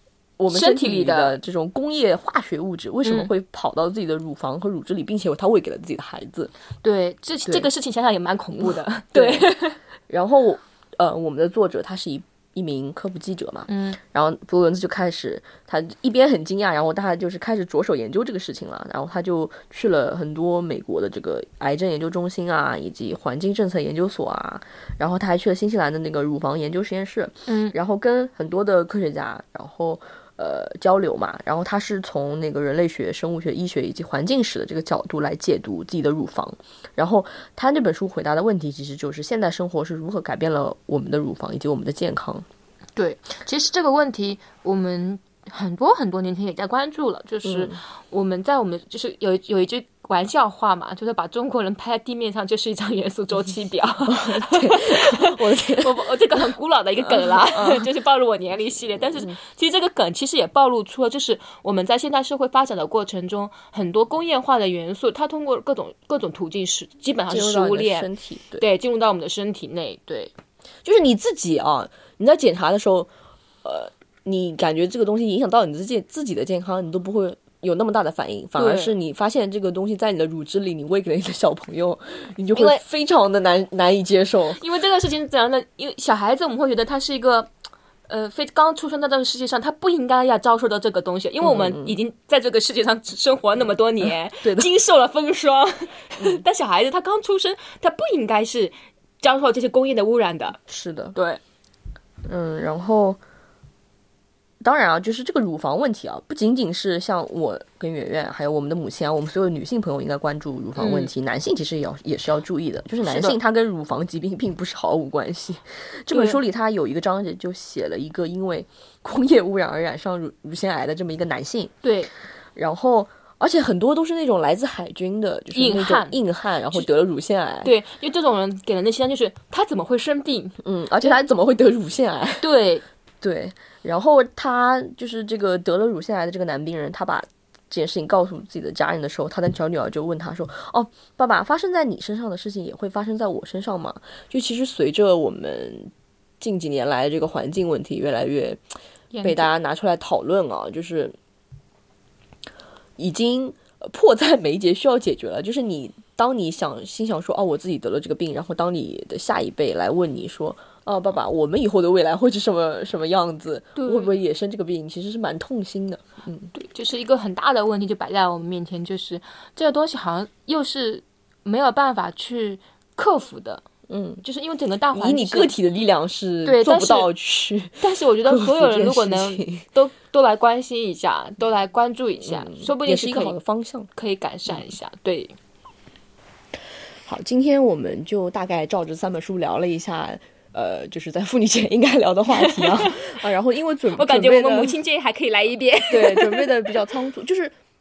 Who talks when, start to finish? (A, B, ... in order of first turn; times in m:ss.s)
0:00.4-0:06.5 A
0:00.5-0:01.4 B
0:03.0-0:03.3 B
0:06.8-0:09.8 B
0:08.6-0:09.6 A
0:10.1-0:42.4 A
0:13.7-0:14.0 B
0:27.5-0:27.8 B
0:43.0-1:10.3 B
0:47.4-0:47.8 A
0:54.0-0:56.5 A
0:57.0-0:57.9 A
0:58.8-0:59.4 A
1:07.3-1:08.6 A
1:10.8-1:13.1 A
1:13.6-1:24.6 A
1:18.6-1:18.9 B
1:22.5-1:22.8 B
1:24.6-1:27.5 B
1:28.1-1:40.6 B
1:31.4-1:32.0 A
1:34.0-1:34.7 A
1:40.7-1:41.2 A
1:41.1-1:41.4 B
1:42.2-1:43.2 A
1:44.6-2:01.7 A
1:50.8-1:51.1 B
1:53.0-1:53.4 B
1:56.1-1:56.4 B
2:01.8-2:02.1 B
2:02.5-2:07.7 A
2:05.5-2:06.2 B
2:07.6-2:11.2 B
2:10.6-2:12.4 A
2:12.4-2:12.8 B
2:13.2-2:28.6 A
2:29.1-2:29.5 B
2:29.2-2:31.1 A
2:33.0-2:46.5 A
2:43.8-2:44.1 B
2:46.5-2:53.6 B
2:53.9-2:54.2 A
2:54.2-2:55.5 B
2:54.9-2:59.6 A
2:56.4-2:57.1 B
2:57.8-3:03.4 B
3:02.2-3:03.9 A
3:04.0-3:05.3 B
3:07.0-3:14.8 A
3:12.3-3:13.0 B
3:13.9-3:16.8 B
3:15.9-3:17.5 A